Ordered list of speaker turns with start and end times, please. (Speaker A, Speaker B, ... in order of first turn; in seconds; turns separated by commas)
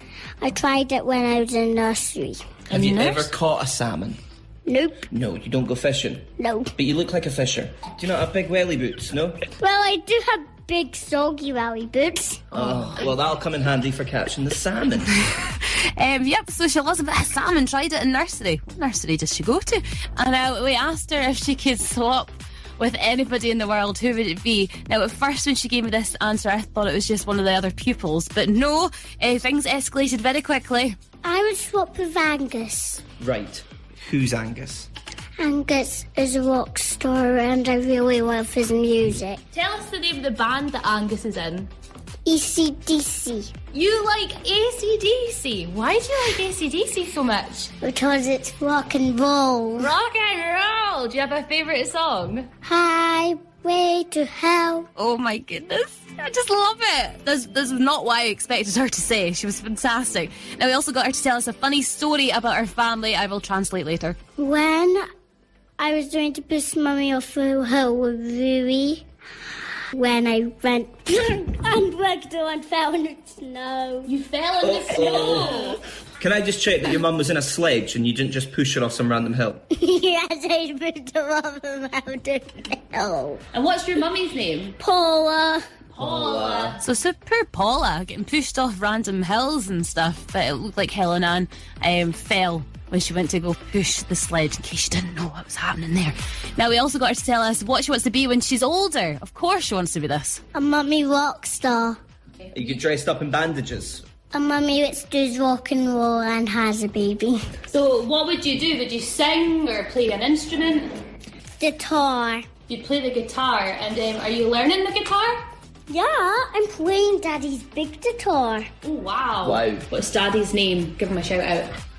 Speaker A: 0.4-2.4, Speaker B: 2.7-3.3, Speaker C: 2.7-4.2, Speaker A: 4.7-5.1, Speaker C: 5.1-9.4, Speaker A: 6.4-6.7, Speaker A: 9.6-12.6, Speaker C: 12.5-15.2, Speaker B: 12.5-13.2, Speaker B: 15.3-31.0, Speaker A: 31.2-33.0, Speaker C: 33.2-34.9, Speaker A: 35.4-39.4, Speaker B: 39.5-41.7, Speaker A: 42.2-43.5, Speaker B: 43.7-47.7, Speaker A: 47.8-49.9, Speaker B: 49.8-52.5, Speaker A: 52.6-54.9, Speaker B: 55.0-64.2, Speaker A: 64.4-65.0, Speaker A: 65.8-69.0, Speaker A: 69.9-74.1, Speaker B: 74.0-75.8, Speaker C: 74.6-75.7, Speaker C: 76.2-79.6, Speaker A: 79.7-83.4, Speaker B: 83.5-84.8, Speaker A: 84.8-85.6, Speaker B: 86.0-100.4, Speaker C: 86.0-86.8, Speaker A: 100.5-102.0, Speaker C: 102.5-104.0, Speaker A: 104.3-107.4, Speaker B: 107.7-110.9, Speaker A: 111.6-112.5, Speaker B: 112.7-115.4, Speaker A: 115.9-118.7, Speaker B: 118.8-121.7, Speaker C: 119.4-119.8